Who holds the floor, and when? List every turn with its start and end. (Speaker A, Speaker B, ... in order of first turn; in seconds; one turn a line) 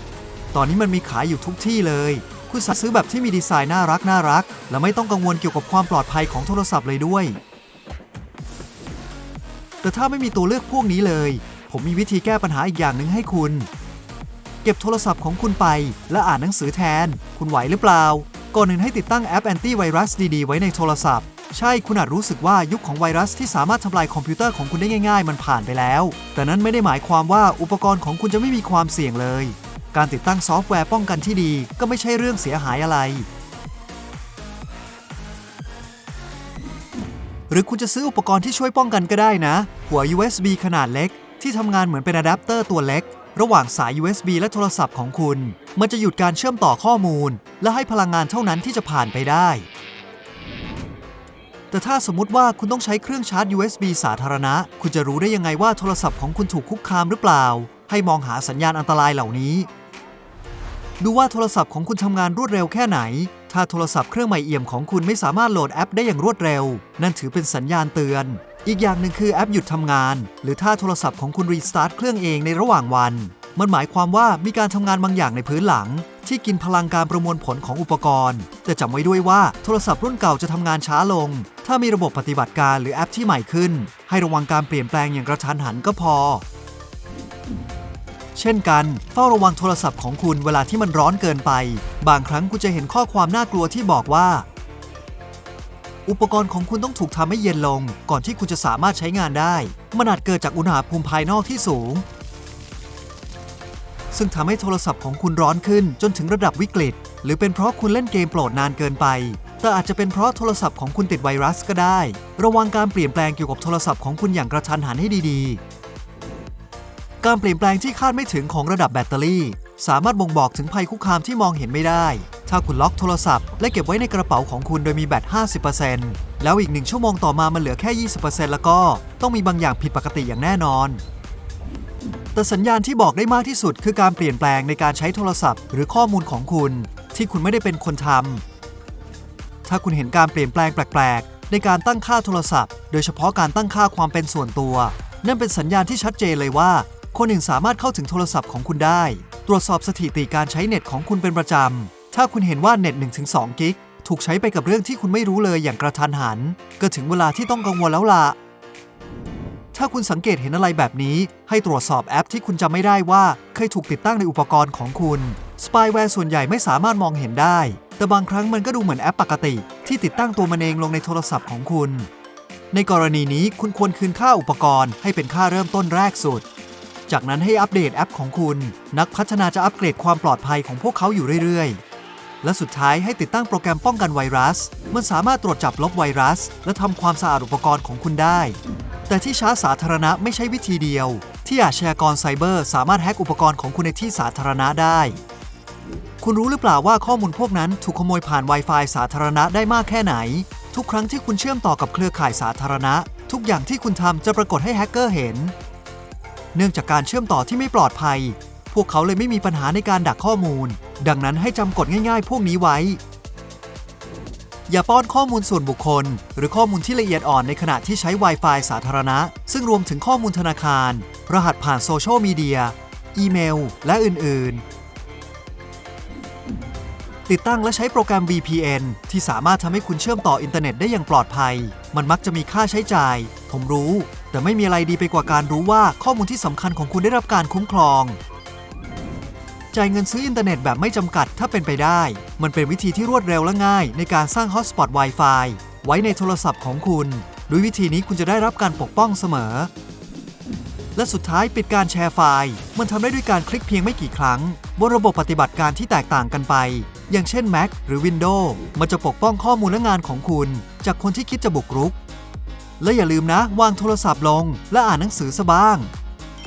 Speaker A: 0.5-7.4
Speaker A: 9.8-13.7
Speaker A: 14.6-33.3
Speaker A: 37.5-49.7
Speaker A: 51.7-59.7
Speaker A: 61.0-86.4
Speaker A: 88.3-94.5
Speaker A: 96.0-102.0
Speaker A: 104.1-115.6
Speaker A: 117.2-131.0
Speaker A: 132.3-138.4
Speaker A: 139.6-158.4
Speaker A: 159.7-172.1
Speaker A: 172.7-176.4
Speaker A: 177.1-181.8
Speaker A: 182.4-195.2
Speaker A: 196.2-205.5
Speaker A: 206.5-213.0
Speaker A: 214.7-224.6
Speaker A: 227.3-238.2
Speaker A: 239.7-249.7
Speaker A: 250.9-262.0
Speaker A: 262.8-265.9